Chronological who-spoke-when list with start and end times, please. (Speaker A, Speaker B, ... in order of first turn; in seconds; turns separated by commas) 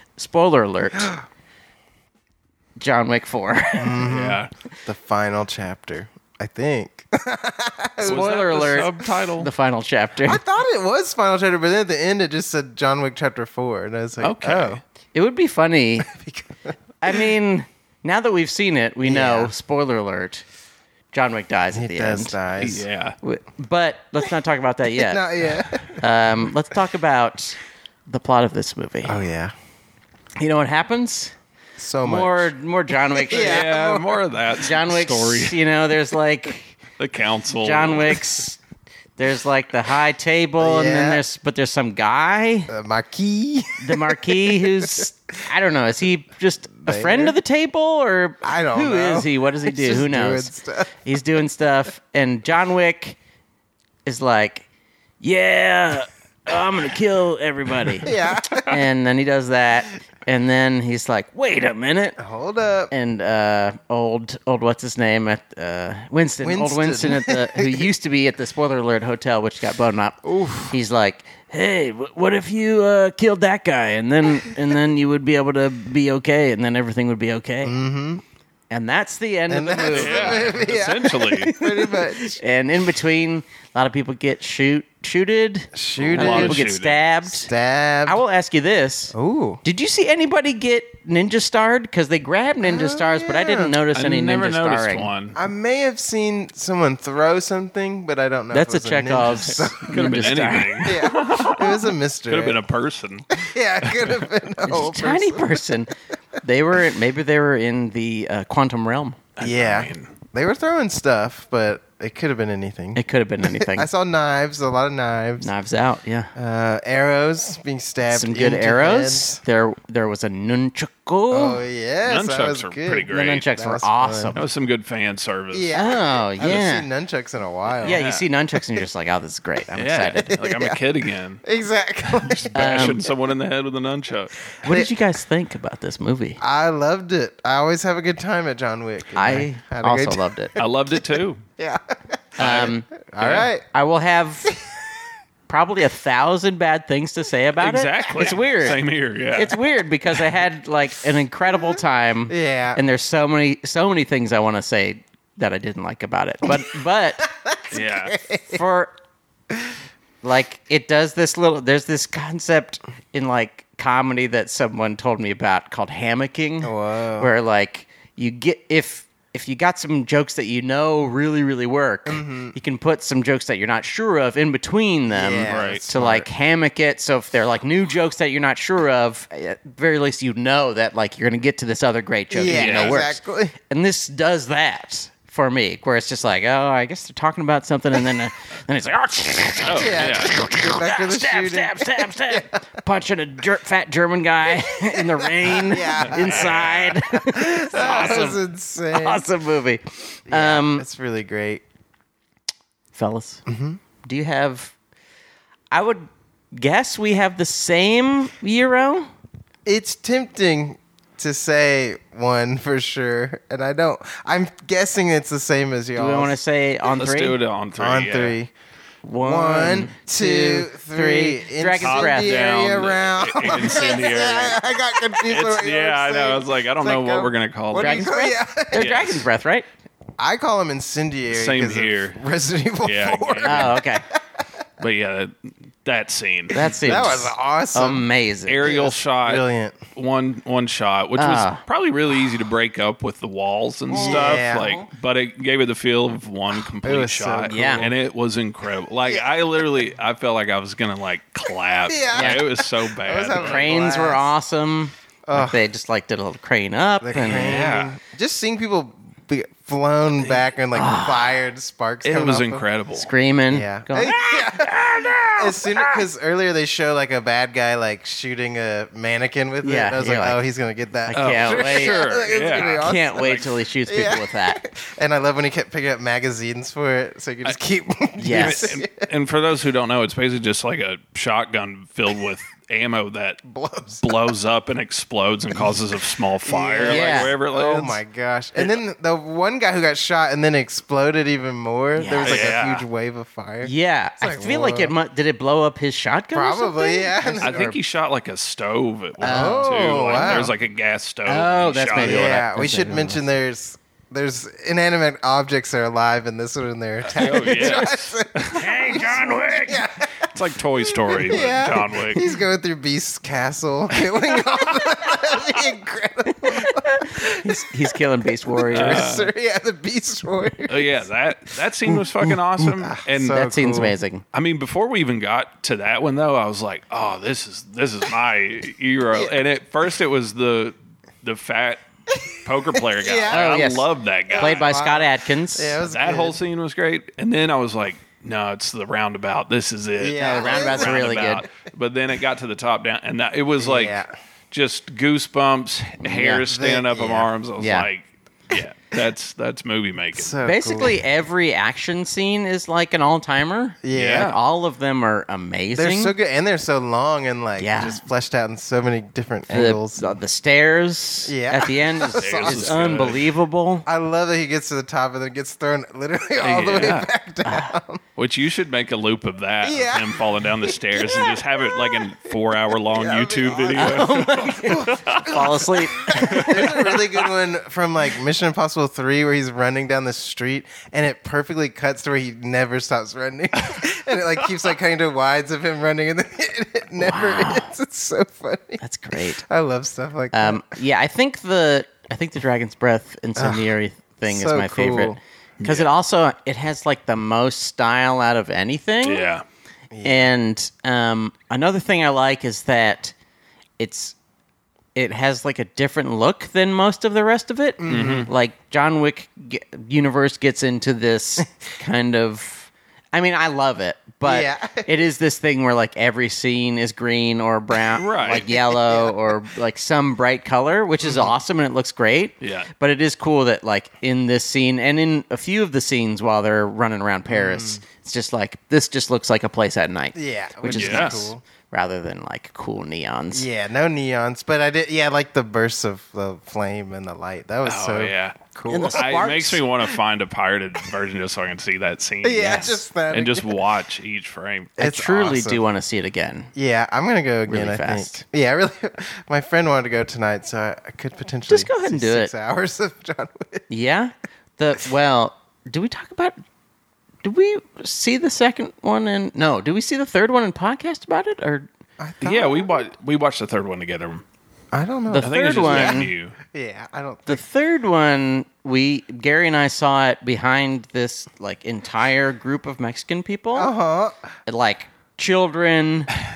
Speaker A: 0.2-1.1, Speaker A: 2.8-4.1, Speaker B: 3.8-8.3, Speaker C: 4.0-4.5, Speaker A: 8.0-10.4, Speaker C: 8.0-9.5, Speaker B: 10.2-14.8, Speaker C: 14.2-14.8, Speaker A: 15.1-16.1, Speaker B: 16.1-17.2, Speaker A: 17.0-20.4, Speaker B: 19.0-19.5, Speaker A: 21.1-22.4, Speaker B: 21.7-22.9, Speaker C: 22.6-23.2, Speaker A: 23.2-25.2, Speaker B: 25.0-26.0, Speaker A: 25.9-27.6, Speaker A: 28.1-29.2, Speaker B: 29.0-29.5, Speaker A: 30.4-31.3, Speaker B: 31.8-32.5, Speaker A: 32.0-33.7, Speaker B: 33.1-34.2, Speaker C: 33.3-35.6, Speaker A: 34.6-36.8, Speaker C: 37.0-38.2, Speaker A: 37.6-38.6, Speaker A: 39.2-42.7, Speaker B: 40.6-41.2, Speaker B: 42.7-45.1, Speaker A: 43.8-53.2, Speaker B: 46.8-47.4, Speaker B: 48.4-50.9, Speaker A: 54.0-54.6, Speaker A: 55.2-62.2, Speaker B: 58.0-58.8, Speaker B: 62.2-62.9, Speaker A: 62.9-77.8, Speaker B: 66.4-67.9, Speaker B: 70.3-70.6, Speaker B: 77.7-78.2, Speaker A: 78.7-80.7, Speaker B: 79.5-82.4, Speaker C: 79.9-81.5, Speaker A: 81.2-87.5, Speaker B: 85.7-86.7, Speaker C: 86.0-87.0, Speaker B: 87.5-88.2, Speaker A: 88.1-95.1, Speaker B: 89.1-89.6, Speaker B: 92.6-93.8, Speaker C: 93.9-95.4, Speaker B: 95.3-100.1, Speaker A: 98.5-101.1, Speaker C: 99.9-104.2, Speaker B: 100.8-102.6, Speaker B: 103.3-105.8, Speaker A: 104.7-109.2, Speaker C: 109.4-110.1, Speaker B: 109.4-115.5, Speaker A: 113.0-113.9, Speaker A: 115.4-116.3, Speaker B: 116.3-119.4, Speaker A: 118.1-121.6, Speaker B: 121.3-124.4, Speaker C: 122.0-123.5, Speaker A: 123.1-124.4, Speaker C: 124.3-126.7, Speaker B: 125.5-128.0, Speaker A: 125.7-126.9, Speaker C: 127.8-128.2, Speaker A: 127.8-130.3, Speaker C: 129.8-131.4, Speaker B: 130.3-130.8, Speaker B: 131.4-133.1, Speaker C: 132.1-134.5, Speaker A: 132.5-133.0, Speaker B: 134.6-134.9, Speaker A: 134.6-136.4, Speaker B: 136.4-140.7, Speaker A: 139.2-140.6, Speaker C: 140.6-141.4, Speaker B: 141.6-143.7, Speaker C: 142.4-143.5, Speaker A: 142.4-142.9, Speaker A: 143.7-144.5, Speaker A: 145.5-148.8, Speaker C: 147.6-149.6, Speaker B: 148.1-148.4, Speaker A: 149.3-157.3, Speaker B: 152.3-152.8, Speaker B: 157.2-158.6, Speaker C: 157.7-158.2, Speaker A: 158.4-158.9, Speaker A: 160.2-200.9, Speaker B: 166.6-167.3, Speaker B: 172.1-172.5, Speaker B: 175.1-176.3, Speaker C: 175.5-175.8, Speaker B: 182.3-183.6, Speaker C: 182.5-183.0, Speaker C: 189.6-190.3, Speaker B: 189.8-192.4, Speaker B: 194.7-199.2, Speaker C: 196.0-197.0, Speaker C: 197.8-198.2, Speaker B: 200.3-201.6, Speaker A: 202.9-203.4, Speaker B: 203.5-203.8, Speaker A: 204.0-204.7, Speaker A: 205.7-209.1, Speaker B: 209.7-216.4, Speaker A: 216.0-217.4, Speaker C: 216.8-218.4, Speaker B: 217.8-218.5, Speaker A: 219.0-222.4, Speaker B: 219.2-229.0, Speaker C: 221.8-224.6, Speaker C: 225.2-228.1, Speaker A: 227.8-229.7, Speaker C: 228.7-229.3, Speaker B: 230.2-234.2, Speaker C: 231.3-232.2, Speaker C: 232.8-233.8, Speaker A: 233.4-234.1, Speaker C: 234.8-237.2, Speaker A: 236.5-238.7, Speaker B: 236.5-238.1, Speaker C: 238.5-239.4, Speaker B: 238.6-239.8, Speaker C: 239.9-253.7, Speaker A: 241.2-241.6, Speaker B: 243.9-244.9, Speaker A: 243.9-244.4, Speaker B: 246.8-247.9, Speaker A: 247.5-247.9, Speaker B: 249.0-249.3, Speaker B: 251.9-254.3, Speaker A: 252.1-252.5, Speaker A: 253.3-257.6, Speaker B: 255.3-255.6, Speaker B: 257.0-262.7, Speaker C: 257.2-257.9, Speaker A: 260.7-261.4, Speaker C: 262.0-263.1, Speaker A: 263.0-266.0, Speaker B: 263.5-279.1, Speaker A: 269.6-270.4, Speaker A: 271.1-272.0, Speaker C: 271.1-273.5, Speaker A: 272.5-274.6, Speaker A: 278.2-278.8, Speaker C: 278.3-283.4, Speaker B: 283.5-284.3, Speaker C: 284.0-288.0, Speaker B: 286.4-294.9, Speaker A: 286.8-287.3, Speaker A: 292.0-292.6, Speaker C: 292.2-292.9, Speaker A: 293.6-297.8, Speaker B: 296.3-297.6, Speaker C: 297.4-302.4, Speaker B: 299.2-300.5, Speaker A: 299.2-300.5, Speaker A: 301.3-303.2, Speaker B: 302.0-321.0, Speaker C: 307.1-308.6, Speaker A: 307.5-307.9, Speaker A: 308.5-309.9, Speaker C: 310.3-312.2, Speaker A: 316.5-319.1, Speaker C: 318.7-319.3, Speaker C: 320.7-323.5, Speaker B: 321.9-324.0, Speaker A: 323.2-324.2, Speaker C: 324.3-334.7, Speaker B: 332.1-333.6, Speaker A: 333.3-335.8, Speaker B: 334.3-336.4, Speaker C: 335.8-350.4, Speaker B: 340.0-341.0, Speaker A: 340.4-341.5, Speaker B: 343.6-344.1, Speaker A: 346.0-346.5, Speaker B: 346.5-347.3, Speaker A: 347.6-347.9, Speaker B: 350.1-351.0, Speaker A: 350.4-356.1, Speaker B: 353.8-354.4, Speaker C: 353.9-354.4, Speaker B: 355.8-360.1, Speaker A: 357.6-358.0, Speaker A: 359.5-363.9, Speaker B: 361.3-363.2, Speaker C: 362.1-363.3, Speaker B: 363.9-368.0, Speaker C: 366.4-367.1, Speaker A: 367.4-367.7, Speaker C: 368.2-375.4, Speaker B: 369.6-372.1, Speaker B: 372.9-390.6, Speaker A: 373.8-376.9, Speaker C: 376.1-376.9, Speaker A: 387.0-387.7, Speaker A: 388.8-389.4, Speaker A: 390.3-399.3, Speaker B: 393.4-395.2, Speaker C: 395.6-395.9, Speaker C: 399.0-399.4, Speaker B: 399.9-400.3, Speaker A: 400.0-403.1, Speaker A: 403.8-404.1, Speaker A: 404.9-433.5, Speaker B: 407.8-408.3, Speaker C: 407.9-408.3, Speaker B: 414.2-414.9, Speaker C: 417.9-418.5, Speaker B: 418.3-419.2, Speaker B: 421.0-421.3, Speaker C: 422.4-422.7, Speaker B: 427.3-427.8, Speaker B: 430.1-431.4, Speaker C: 430.7-431.3, Speaker B: 433.3-439.0, Speaker C: 437.6-438.4, Speaker A: 438.7-439.6, Speaker C: 438.9-444.8, Speaker B: 442.2-443.6, Speaker B: 444.8-445.6, Speaker A: 444.8-446.5, Speaker B: 446.6-453.7, Speaker A: 447.5-448.2, Speaker A: 451.5-452.3, Speaker A: 453.7-456.4, Speaker A: 457.2-461.7, Speaker B: 462.0-462.8, Speaker C: 462.2-464.2, Speaker B: 464.7-467.4, Speaker A: 465.1-466.1, Speaker C: 465.1-466.4, Speaker A: 467.3-473.7, Speaker B: 473.5-474.3, Speaker A: 474.5-476.1